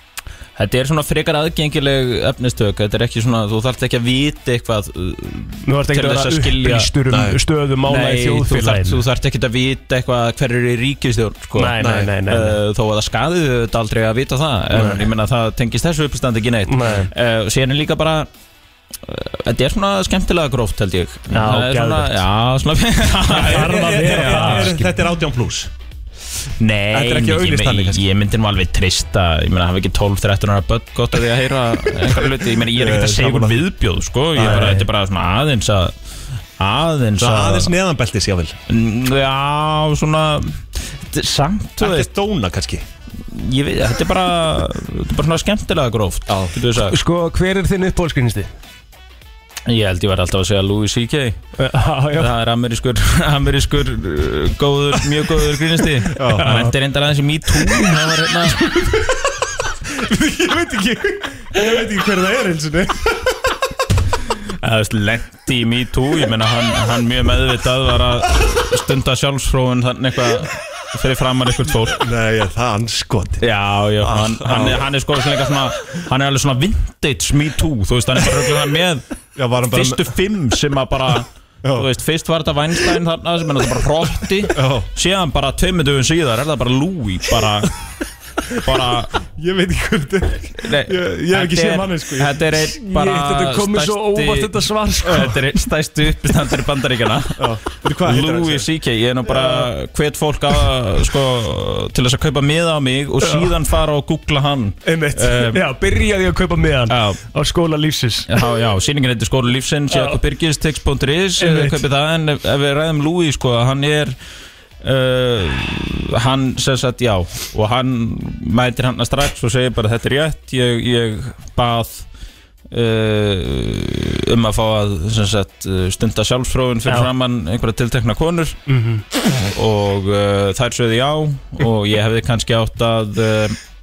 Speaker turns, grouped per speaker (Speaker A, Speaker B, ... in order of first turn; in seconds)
Speaker A: 0.6-6.9, 7.8-18.3, 19.0-24.8, 26.6-35.9, 36.6-37.7, 38.7-42.1, 43.3-47.0, 49.7-51.4, 52.1-58.7, 64.6-72.0, 73.4-79.0, 79.7-87.7, 88.5-89.2, 90.6-105.6, 106.9-107.2, 108.3-114.2, 114.8-122.0, 122.7-128.6, 129.5-133.6
Speaker B: 5.6-9.0, 11.5-12.6, 14.7-15.1, 16.7-17.1, 21.3-22.2, 23.3-25.0, 34.4-34.9, 46.9-48.5, 51.6-52.3, 56.3-56.7, 92.7-95.6, 99.3-99.7, 103.2-103.5, 104.8-108.3, 109.9-110.2, 111.4-111.8, 126.8-127.1, 128.7-129.0
Speaker C: 7.1-7.4, 11.8-12.1, 23.4-25.7, 26.9-28.0, 32.5-33.6, 34.4-34.8, 37.2-38.5, 41.8-42.8, 46.3-46.5, 56.1-56.6, 59.9-63.3, 71.9-73.4, 74.0-74.8, 79.3-80.1, 81.6-81.9, 84.5-84.9, 89.3-92.5, 95.0-95.3, 97.4-98.7